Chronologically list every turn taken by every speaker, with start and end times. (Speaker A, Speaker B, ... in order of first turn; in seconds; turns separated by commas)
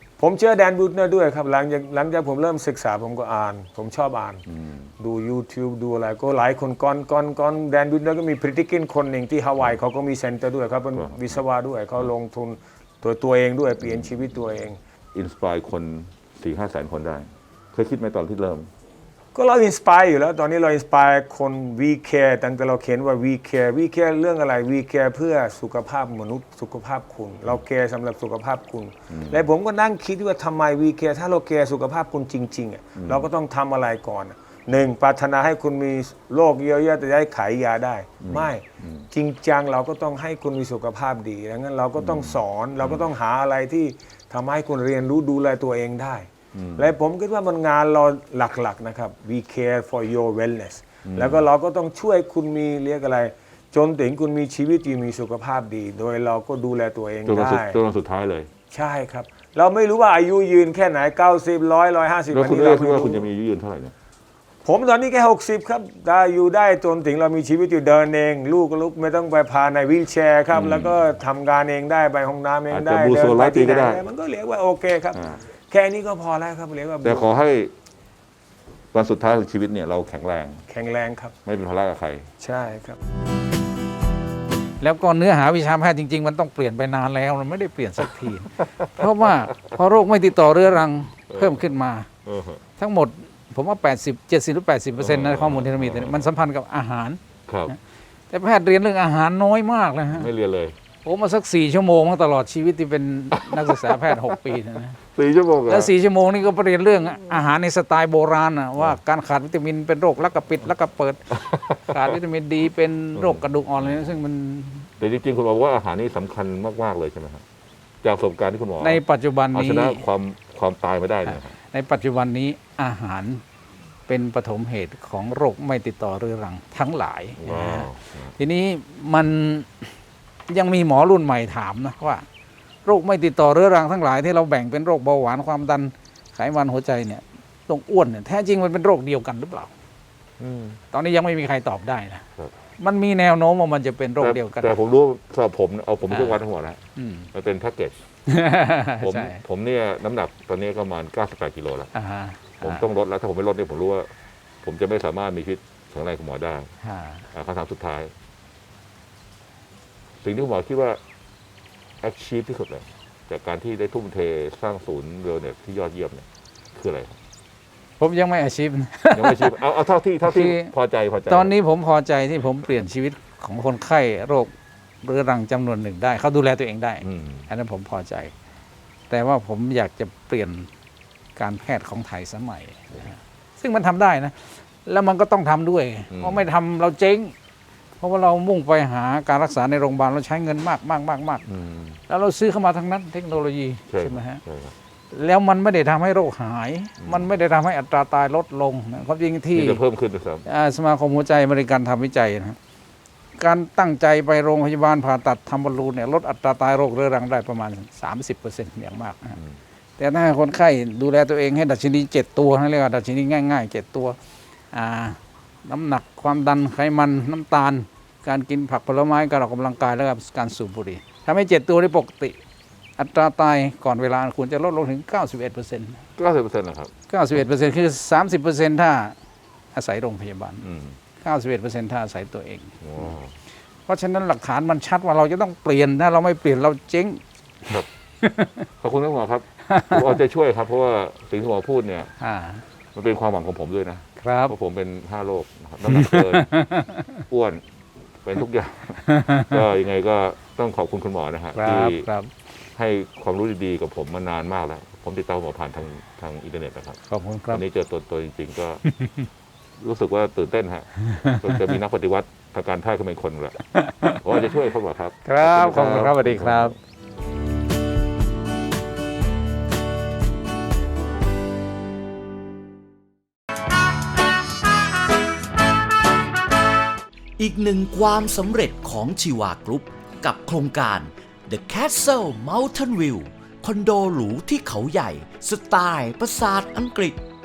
Speaker A: 0.2-4.4, Speaker B: 4.5-4.9, Speaker A: 5.0-14.8, Speaker B: 10.9-11.4, Speaker B: 13.8-14.5, Speaker B: 15.1-18.7, Speaker A: 19.3-57.8, Speaker B: 29.1-29.4, Speaker B: 33.0-33.3, Speaker B: 38.2-39.1, Speaker B: 42.0-43.1, Speaker B: 46.5-46.9, Speaker B: 51.0-51.5, Speaker B: 57.2-58.5, Speaker A: 58.7-63.3, Speaker B: 62.3-63.9, Speaker A: 64.6-77.4, Speaker B: 70.5-71.0, Speaker B: 72.7-74.0, Speaker B: 75.1-75.4, Speaker B: 77.0-77.7, Speaker B: 78.9-80.6, Speaker A: 80.7-81.3, Speaker B: 81.4-82.3, Speaker A: 82.4-83.0, Speaker C: 84.8-92.1, Speaker B: 88.6-89.8, Speaker B: 91.3-91.7, Speaker B: 92.2-92.6, Speaker C: 92.8-97.2, Speaker B: 95.0-96.3, Speaker B: 97.5-97.7, Speaker C: 98.3-100.3, Speaker B: 100.1-100.8, Speaker C: 101.0-105.0, Speaker B: 103.3-104.2, Speaker B: 105.0-105.9, Speaker C: 105.7-114.9, Speaker B: 111.3-112.1, Speaker B: 113.1-114.0, Speaker B: 115.0-117.4, Speaker B: 118.0-121.5, Speaker C: 118.8-120.0, Speaker C: 121.2-123.4, Speaker C: 124.1-129.9, Speaker B: 127.3-128.3, Speaker C: 130.5-132.2, Speaker C: 132.8-139.7, Speaker C: 140.9-142.2, Speaker C: 142.8-144.8, Speaker B: 144.2-146.8, Speaker C: 146.1-146.4, Speaker C: 146.9-147.3, Speaker B: 147.3-148.0, Speaker C: 148.3-149.4, Speaker B: 149.0-151.9, Speaker C: 151.9-152.8, Speaker B: 152.6-156.7, Speaker C: 156.8-157.2, Speaker B: 157.3-158.1, Speaker B: 160.2-161.0, Speaker B: 162.0-167.2, Speaker C: 168.0-169.6, Speaker B: 169.1-171.5, Speaker C: 170.2-170.7, Speaker C: 171.3-174.5, Speaker C: 175.0-178.3, Speaker B: 177.0-177.5, Speaker C: 179.1-180.7, Speaker C: 181.3-187.3, Speaker B: 186.1-186.4, Speaker C: 188.0-191.4, Speaker B: 191.4-192.0, Speaker C: 192.1-194.4, Speaker B: 193.9-194.7, Speaker C: 195.1-199.8, Speaker B: 197.0-197.3, Speaker B: 199.5-200.4, Speaker C: 200.4-202.6, Speaker C: 203.4-209.4, Speaker C: 210.0-214.2, Speaker C: 214.7-222.4, Speaker C: 223.0-226.0, Speaker B: 226.2-226.9, Speaker C: 227.1-229.1, Speaker C: 229.7-230.6, Speaker B: 230.6-231.0, Speaker C: 231.2-233.1, Speaker B: 232.8-233.3, Speaker C: 233.9-237.2, Speaker C: 237.7-238.5, Speaker B: 238.7-242.1, Speaker C: 239.7-240.2, Speaker C: 242.2-242.6, Speaker B: 242.9-246.5, Speaker C: 244.2-244.6, Speaker C: 245.9-247.1, Speaker B: 247.3-247.6, Speaker B: 248.2-252.1, Speaker C: 249.1-249.4, Speaker C: 251.5-252.3, Speaker B: 252.7-257.0, Speaker C: 257.1-257.6, Speaker B: 257.5-258.8, Speaker C: 258.9-259.1, Speaker B: 259.8-263.6, Speaker C: 263.8-264.2, Speaker B: 264.1-266.8, Speaker C: 265.2-266.8, Speaker D: 277.4-287.2